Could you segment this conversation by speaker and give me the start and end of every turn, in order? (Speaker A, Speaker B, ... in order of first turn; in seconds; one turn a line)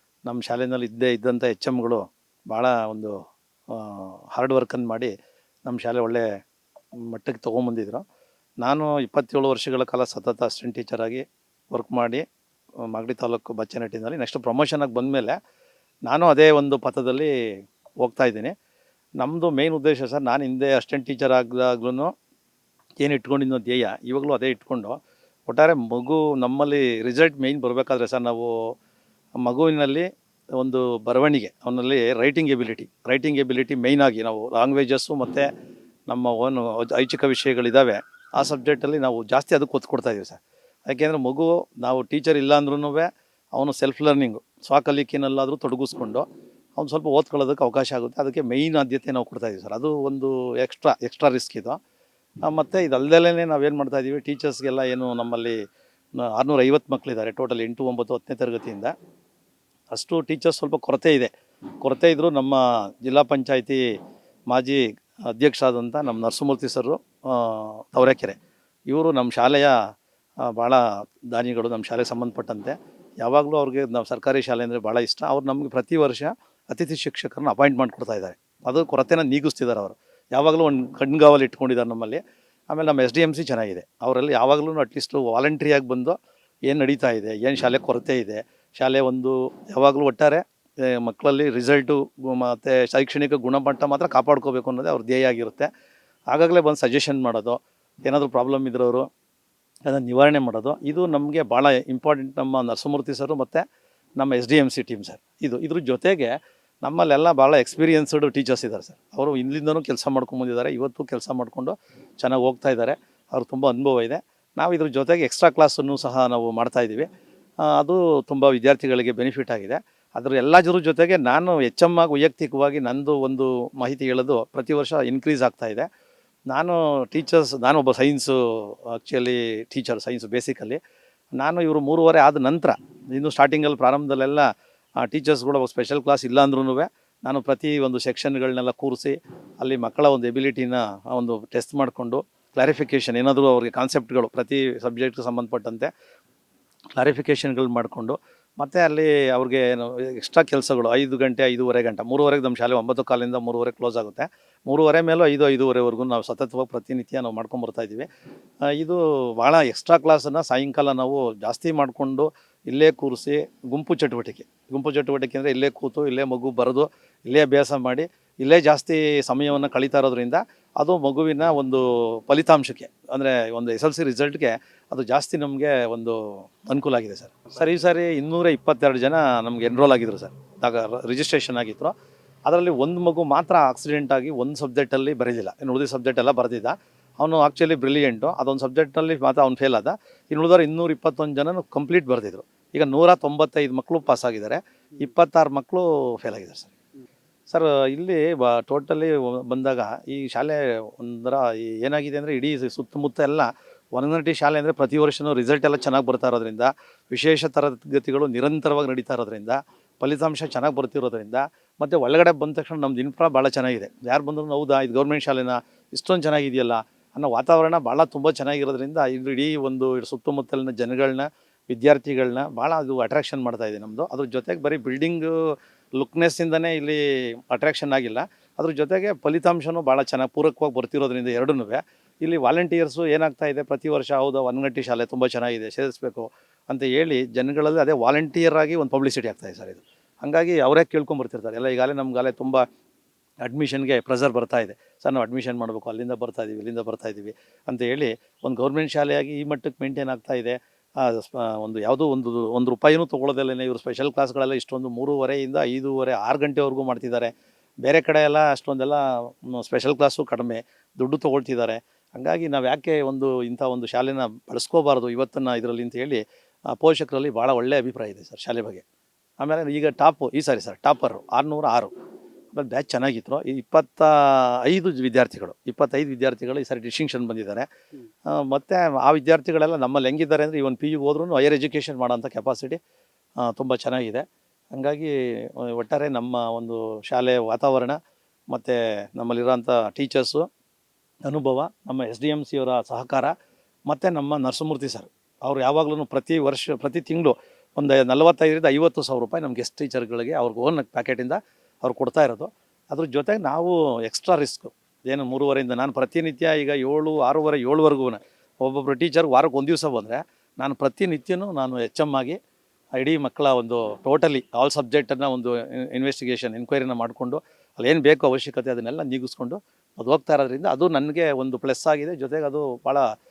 Speaker A: 0.3-3.2
Speaker A: 3.7-5.1
Speaker A: 5.7-6.3
Speaker A: 7.0-8.0
Speaker A: 8.6-12.2
Speaker A: 12.8-15.4
Speaker A: 16.1-17.3
Speaker A: 18.0-18.5
Speaker A: 19.2-22.1
Speaker A: 23.0-28.7
Speaker A: 29.4-35.5
Speaker A: 36.1-46.2
Speaker A: 46.8-51.8
Speaker A: 52.5-55.6
Speaker A: 56.2-58.9
Speaker A: 59.9-63.9
Speaker A: 64.5-68.4
Speaker A: 68.9-69.8
Speaker A: 70.4-86.2
Speaker A: 86.7-95.7
Speaker A: 96.3-99.1
Speaker A: 99.9-103.6
Speaker A: 104.2-117.1
Speaker A: 117.6-125.9
Speaker A: 126.5-130.8
Speaker A: 131.4-134.5
Speaker A: 135.0-145.9
Speaker A: 147.0-158.1
Speaker A: 158.7-181.9
Speaker A: 182.5-196.8
Speaker A: 197.5-242.7
Speaker A: 243.4-257.3
Speaker A: 257.8-268.9
Speaker A: 269.4-271.9
Speaker A: 272.5-277.7
Speaker A: 278.3-282.8
Speaker A: 283.4-288.0
Speaker A: 288.5-290.5
Speaker A: 291.3-293.3
Speaker A: 293.9-312.4
Speaker A: 313.0-323.1